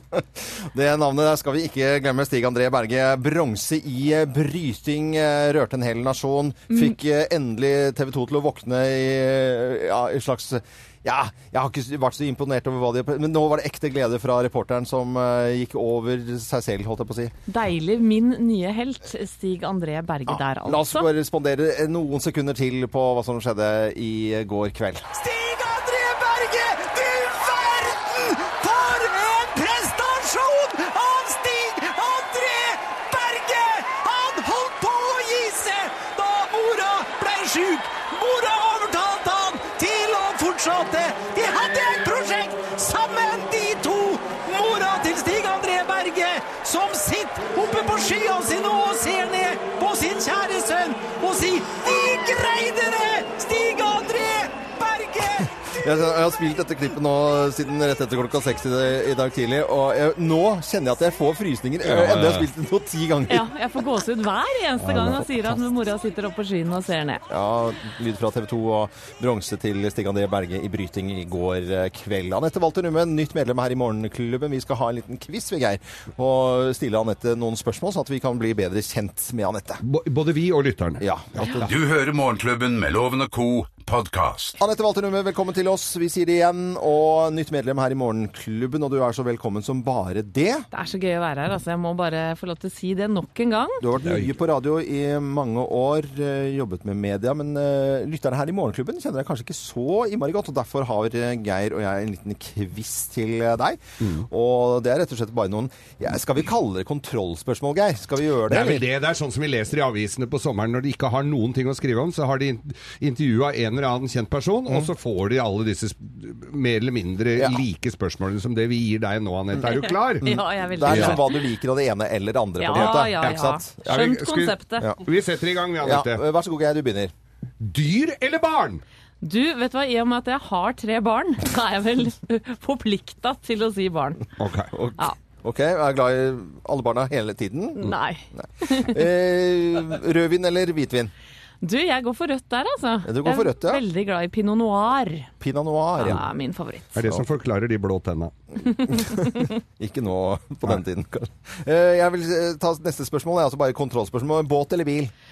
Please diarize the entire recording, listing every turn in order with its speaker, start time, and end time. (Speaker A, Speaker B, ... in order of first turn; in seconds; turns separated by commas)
Speaker A: 0.1-17.3, Speaker B: 6.7-7.0, Speaker B: 17.5-21.1, Speaker A: 20.3-25.1, Speaker C: 25.1-55.5, Speaker A: 55.7-63.5, Speaker D: 61.8-62.5, Speaker B: 63.3-67.2, Speaker D: 64.8-65.2, Speaker A: 67.3-79.8, Speaker D: 79.8-81.6, Speaker A: 81.0-81.7, Speaker E: 81.6-84.6, Speaker A: 84.6-90.7, Speaker B: 90.7-93.8, Speaker A: 93.8-108.9, Speaker D: 94.0-94.3, Speaker D: 104.0-104.2, Speaker D: 108.5-120.3, Speaker A: 117.4-117.6, Speaker B: 119.6-121.4, Speaker A: 120.2-123.8, Speaker D: 120.8-121.2, Speaker B: 122.6-124.9, Speaker D: 122.7-126.2, Speaker A: 125.8-127.1, Speaker D: 127.6-128.8, Speaker B: 129.2-134.3, Speaker D: 134.4-134.7, Speaker A: 134.7-141.1, Speaker B: 137.8-139.0, Speaker B: 141.6-145.3, Speaker A: 143.1-143.8, Speaker A: 145.4-146.2, Speaker B: 146.0-146.9, Speaker D: 146.9-148.3, Speaker B: 148.8-149.5, Speaker A: 148.9-155.1